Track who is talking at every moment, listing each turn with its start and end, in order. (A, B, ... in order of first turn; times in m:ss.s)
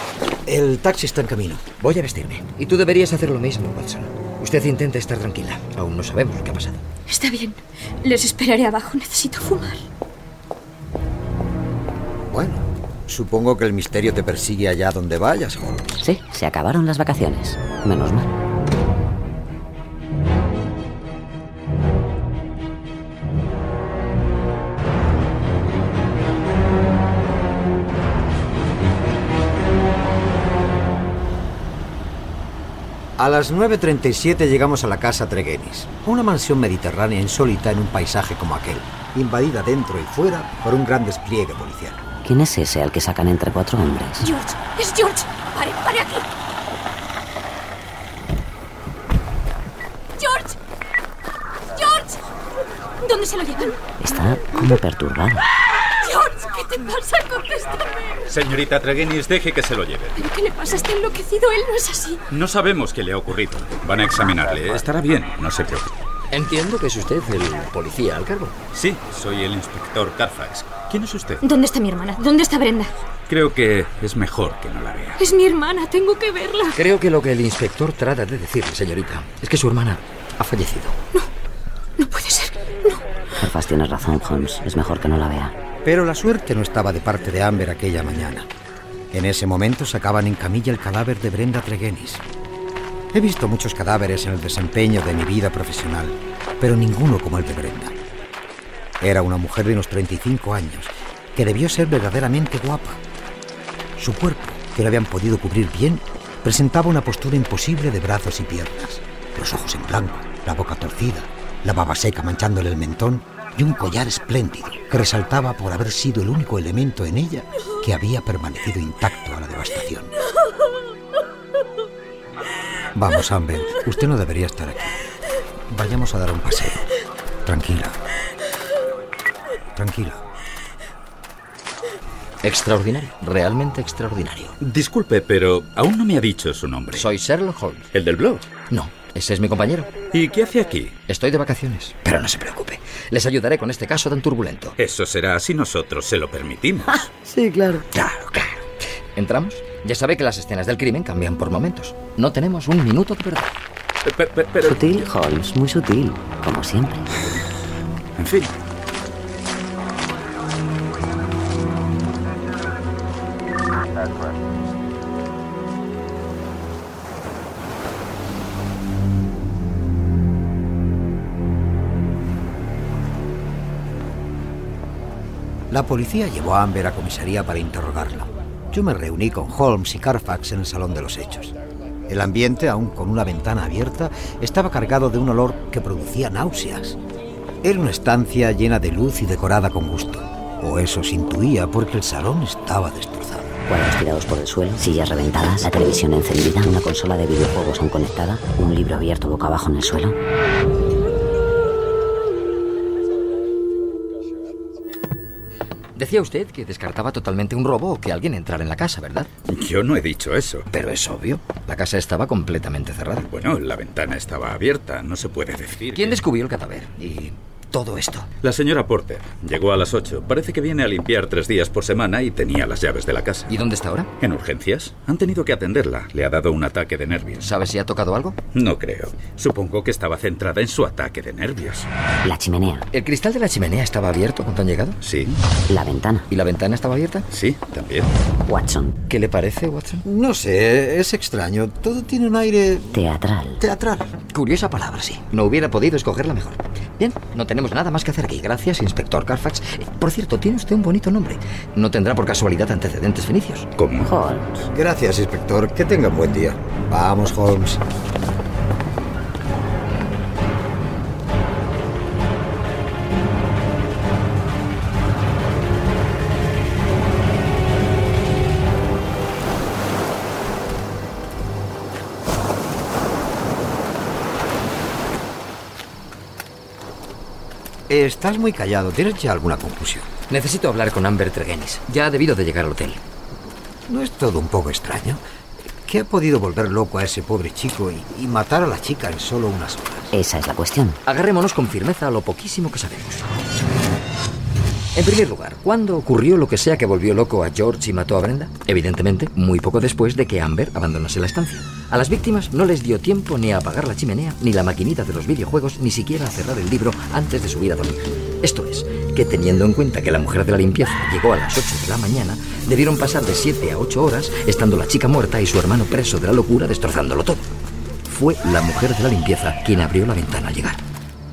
0:00.5-0:01.6 A
0:01.8-0:06.8 B
0:07.1-0:09.8 C
0:12.3-0:15.9 A
0:16.0-0:18.3 D
0:33.2-0:42.0 A
0:42.2-0:44.3 D
0:44.2-0:46.3 C
0:50.2-0:50.6 C
0:51.7-0:52.2 C
0:53.0-0:53.8 C
0:54.0-0:55.5 D
0:55.8-0:58.2 C
0:58.3-1:00.1 E
1:00.1-1:02.2 C
1:02.3-1:05.9 E
1:06.3-1:08.6 B
1:08.7-1:11.4 E
1:11.4-1:13.0 C
1:13.3-1:15.2 E
1:15.2-1:16.8 C
1:16.8-1:21.0 B
1:22.0-1:23.0 C
1:23.4-1:25.5 D
1:25.8-1:28.5 A
1:29.1-1:32.2 A
1:33.1-1:38.0 A
1:39.0-1:43.0 A
1:44.0-2:00.1 A
2:02.9-2:04.9 A
2:05.7-2:06.9 A
2:07.4-2:08.0 A
2:09.8-2:10.2 A
2:12.4-2:14.6 B
2:14.6-2:17.1 E
2:16.9-2:17.9 B
2:17.9-2:18.5 E
2:18.7-2:20.0 B
2:20.1-2:21.0 E
2:21.0-2:24.8 B
2:24.8-2:27.0 E
2:27.2-2:33.6 B
2:34.0-2:35.0 E
2:34.6-2:37.1 D
2:38.2-2:38.5 E
2:55.7-3:01.5 A
3:02.1-3:07.0 A
3:07.6-3:13.5 A
3:13.7-3:20.2 D
3:25.9-3:29.3 B
3:29.5-3:30.7 E
3:30.7-3:33.3 B
3:33.3-3:36.2 E
3:35.9-3:38.3 B
3:38.4-3:43.5 E
3:43.5-3:44.1 B
3:44.2-3:47.4 E
3:47.4-3:48.4 B
3:48.5-3:51.9 E
3:52.2-3:52.9 D
3:52.9-3:55.0 B
3:55.0-3:55.4 E
3:55.7-3:56.3 D
3:56.3-3:57.2 B
3:57.3-3:58.1 E
3:58.4-3:59.0 D
3:59.1-4:00.0 B
4:00.0-4:02.9 A
4:02.9-4:03.6 D
4:03.6-4:04.1 A
4:04.3-4:13.7 B
4:13.8-4:14.1 E
4:14.0-4:14.7 D
4:14.7-4:17.8 A
4:37.9-4:40.1 A
4:40.3-4:43.0 B
4:43.9-4:45.2 A
4:45.8-4:50.1 A
4:50.1-4:51.0 D
4:51.0-4:53.2 B
4:54.9-5:17.5 B
5:18.0-5:20.8 B